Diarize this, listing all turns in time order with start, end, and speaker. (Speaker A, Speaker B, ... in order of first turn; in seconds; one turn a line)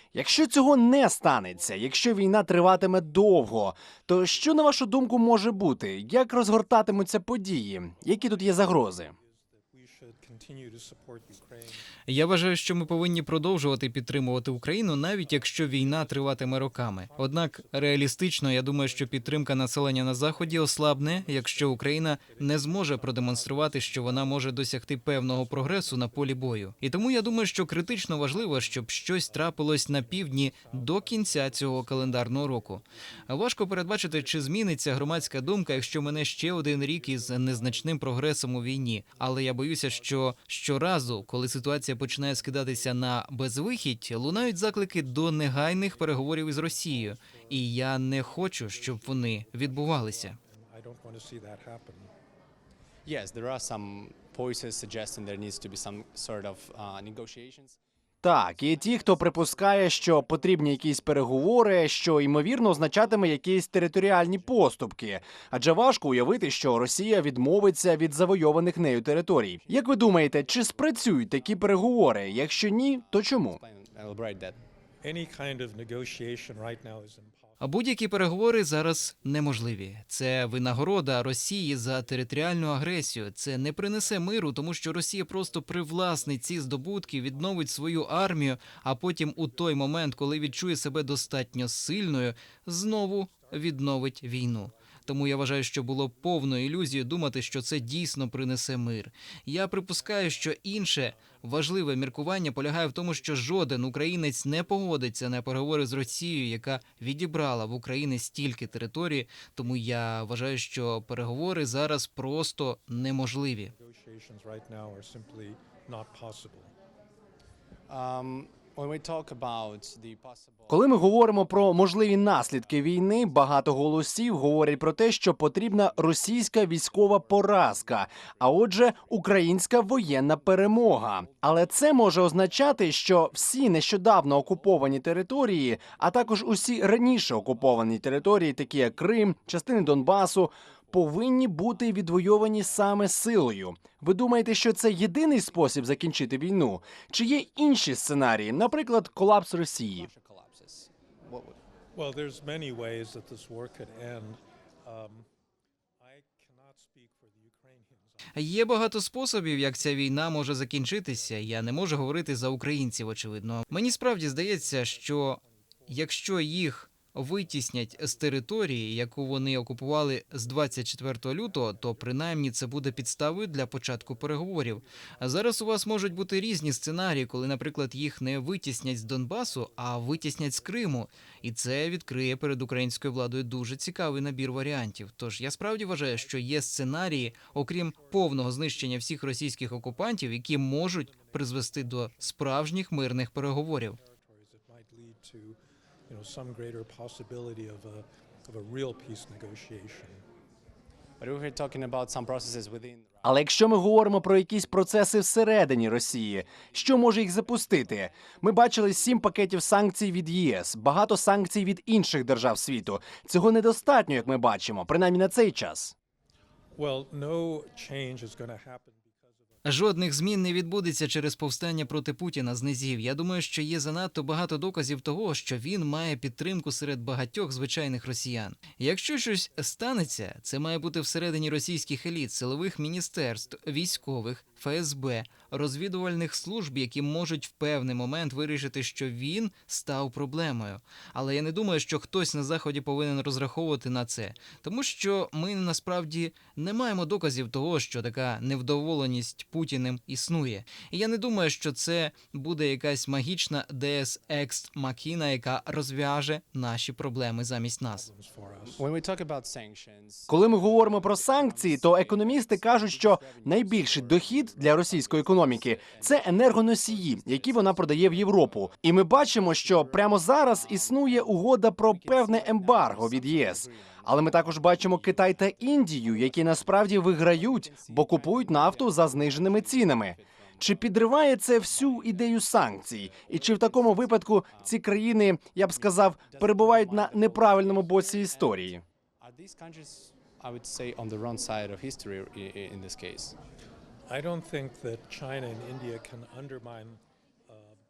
Speaker A: 0.1-9.1
Speaker B: 1.6-3.4
Speaker B: 4.1-4.6
Speaker B: 8.0-11.9
Speaker C: 12.1-50.4
Speaker B: 15.1-52.1
Speaker D: 53.0-57.8
Speaker A: 58.2-73.6
Speaker B: 58.4-60.4
Speaker D: 59.9-61.2
Speaker D: 62.7-63.2
Speaker D: 63.8-64.8
Speaker D: 69.3-74.6
Speaker B: 75.0-80.0
Speaker C: 77.6-113.7
Speaker B: 81.8-82.2
Speaker B: 83.5-84.5
Speaker B: 85.3-92.3
Speaker B: 92.9-98.0
Speaker B: 99.8-103.5
Speaker B: 113.6-116.7
Speaker D: 117.9-121.0
Speaker A: 120.7-150.1
Speaker D: 123.1-123.9
Speaker D: 125.9-134.9
Speaker D: 135.8-141.0
Speaker D: 149.9-151.6
Speaker B: 151.9-155.3
Speaker B: 156.0-158.4
Speaker C: 158.3-194.0
Speaker B: 159.8-160.2
Speaker B: 160.8-161.9
Speaker B: 163.6-166.2
Speaker B: 167.3-169.4
Speaker B: 170.5-176.8
Speaker B: 179.3-181.0
Speaker B: 187.9-188.5
Speaker B: 191.1-192.6
Speaker B: 193.9-195.6
Speaker B: 196.1-200.2
Speaker D: 201.2-203.2
Speaker A: 203.2-215.9
Speaker B: 216.8-219.4
Speaker C: 219.7-258.1
Speaker B: 257.9-258.8
Speaker D: 258.7-281.0
Speaker A: 260.3-288.8
Speaker D: 281.6-284.8
Speaker D: 285.7-293.4
Speaker B: 294.1-297.8